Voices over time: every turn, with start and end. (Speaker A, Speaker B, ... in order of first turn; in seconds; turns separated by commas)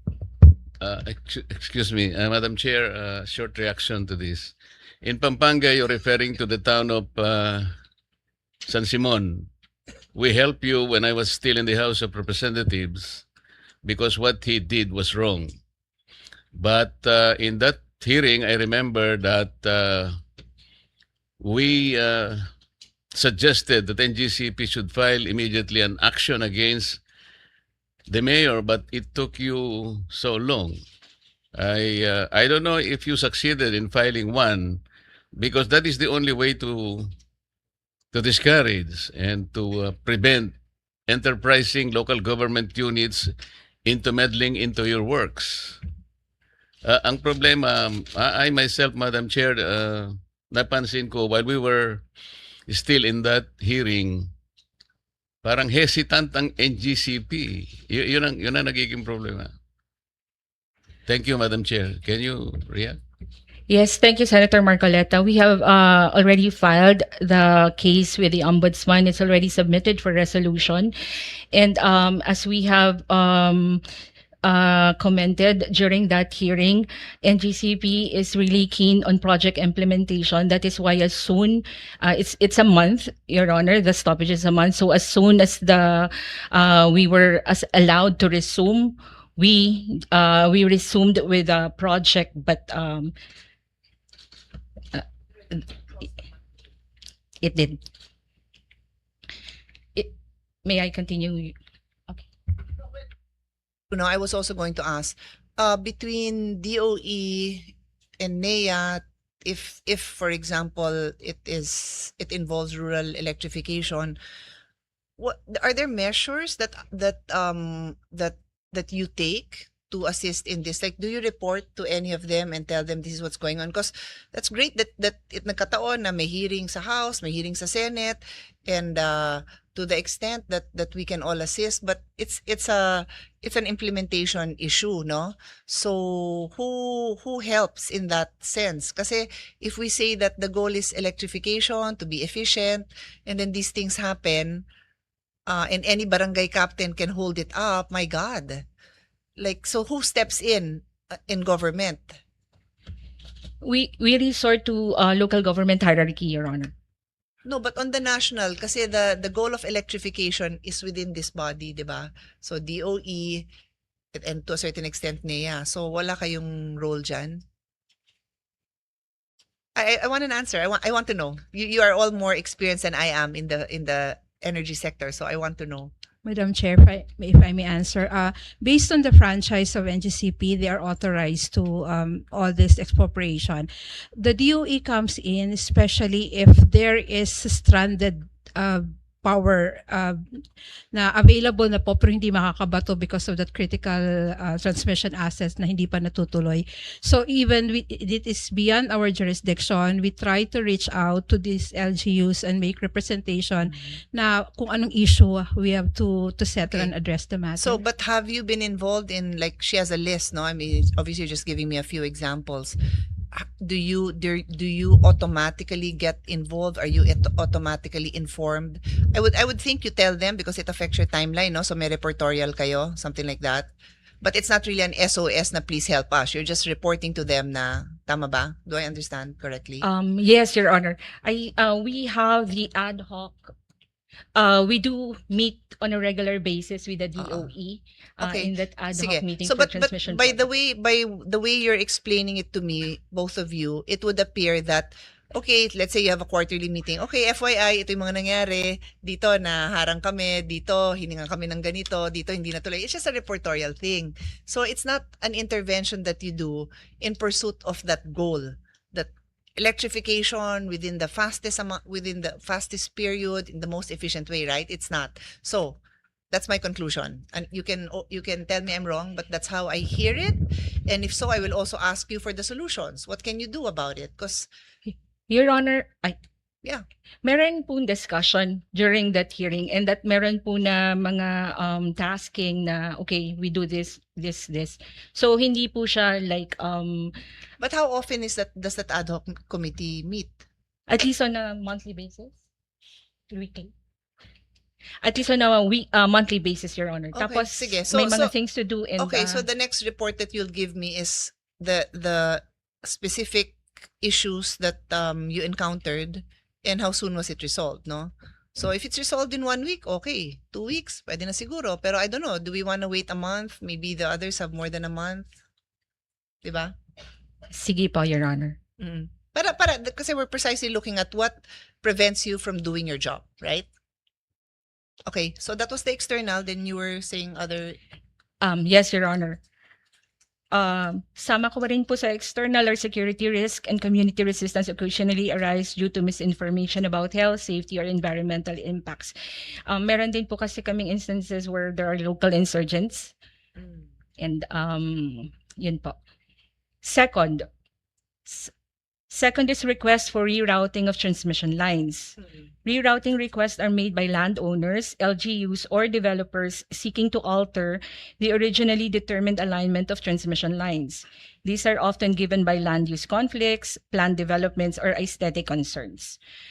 Speaker A: 0.8-7.7, Speaker A: 8.7-9.5, Speaker A: 10.2-13.3, Speaker A: 13.8-15.6, Speaker A: 16.5-20.2, Speaker A: 21.4-22.5, Speaker A: 23.1-27.0, Speaker A: 28.1-30.8, Speaker A: 31.6-34.8, Speaker A: 35.3-37.1, Speaker A: 38.1-43.3, Speaker A: 43.9-45.8, Speaker A: 46.8-52.0, Speaker A: 52.7-54.3, Speaker A: 55.4-59.5, Speaker A: 61.1-63.0, Speaker B: 63.7-70.9, Speaker B: 71.5-73.8, Speaker B: 74.4-93.1, Speaker B: 94.9-95.7, Speaker B: 97.4-97.8, Speaker B: 100.7-101.5, Speaker C: 103.9-114.2, Speaker C: 115.2-144.7, Speaker C: 145.5-148.7, Speaker C: 149.4-152.2, Speaker B: 153.6-156.7, Speaker C: 157.5-163.5, Speaker C: 164.1-167.4, Speaker C: 169.8-175.9, Speaker D: 176.2-190.2, Speaker D: 190.9-207.8, Speaker C: 207.6-212.8, Speaker C: 213.3-223.7, Speaker C: 224.2-229.8, Speaker B: 229.8-233.5, Speaker B: 234.3-240.4, Speaker C: 237.2-237.5, Speaker C: 238.2-265.8, Speaker C: 266.3-274.5, Speaker B: 275.3-276.2, Speaker B: 277.2-287.1, Speaker C: 287.6-290.4, Speaker B: 290.9-292.4, Speaker B: 293.3-293.7, Speaker B: 295.0-299.4, Speaker C: 297.1-298.3, Speaker C: 299.0-315.3, Speaker C: 316.4-316.8, Speaker B: 317.5-318.6, Speaker C: 318.8-323.7, Speaker C: 325.1-327.8, Speaker B: 328.4-329.4, Speaker B: 330.5-339.1, Speaker B: 339.7-343.1, Speaker B: 344.2-346.0, Speaker B: 346.8-347.5, Speaker B: 348.3-348.5, Speaker B: 349.1-366.2